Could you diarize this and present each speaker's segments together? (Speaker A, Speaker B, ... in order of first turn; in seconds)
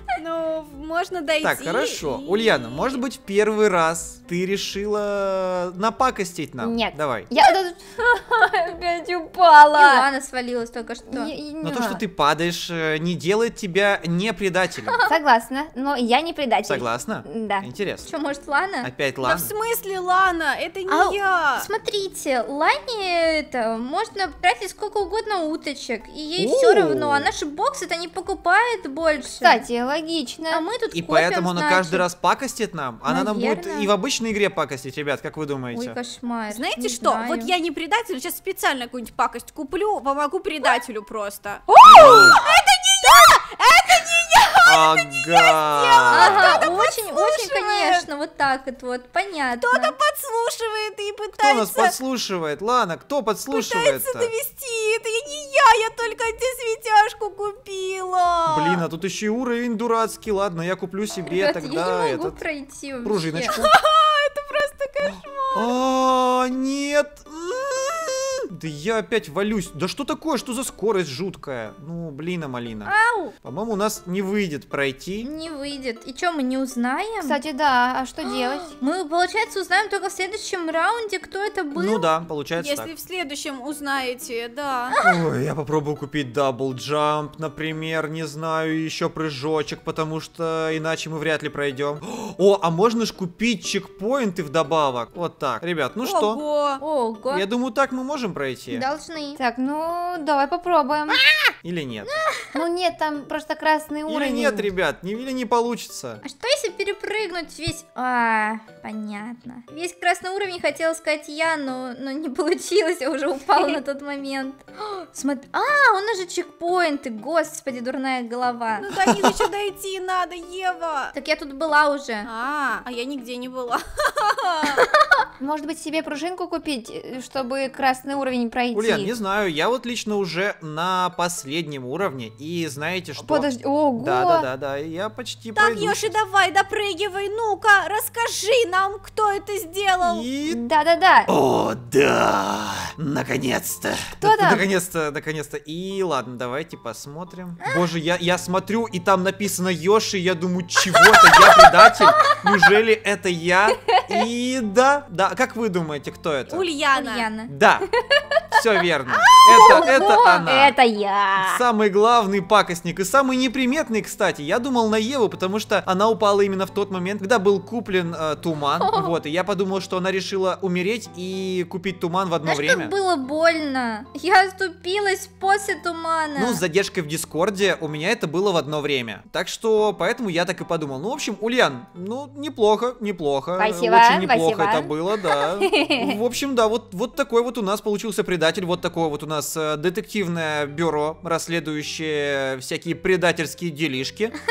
Speaker A: 0.1-3.0, 19.2-21.7, 36.5-48.0, 49.6-51.9, 53.5-58.8, 63.5-65.7, 82.6-85.0, 96.0-96.8, 118.8-121.1, 122.2-124.8, 135.6-140.3, 156.5-157.3
Speaker B: 1.4-7.3, 11.6-15.0, 16.6-18.1, 18.8-19.5, 26.4-27.3, 30.9-36.0, 41.9-42.4, 44.6-46.7, 51.4-54.3, 58.5-62.4, 63.0-63.7, 65.0-72.9, 73.4-75.3, 81.7-82.9, 85.0-96.4, 97.3-98.8, 101.6-102.1, 104.1-106.2, 128.7-136.1, 140.0-140.6, 141.3-156.6, 157.5-157.9, 158.5-160.8, 161.4-172.9, 176.4-194.3
Speaker C: 6.6-10.1, 11.1-12.0, 15.1-17.6, 29.3-30.6, 77.2-78.7, 99.4-101.2, 102.5-104.7, 113.5-113.8, 125.4-129.1, 133.2-134.5, 140.5-141.3, 144.2-144.7, 153.7-154.1, 158.0-158.6, 159.3-161.6, 183.6-186.2
Speaker D: 9.7-11.3, 14.9-15.2, 18.1-18.9, 20.9-29.6, 30.5-32.0, 33.1-33.9, 35.7-37.5, 46.1-50.0, 61.3-63.5, 72.8-73.3, 75.2-77.4, 78.2-82.1, 96.8-97.5, 98.7-99.4, 102.0-102.6, 106.2-118.9, 121.1-122.3, 124.7-125.0, 156.9-157.5, 159.5-160.5, 168.8-169.1, 172.4-176.6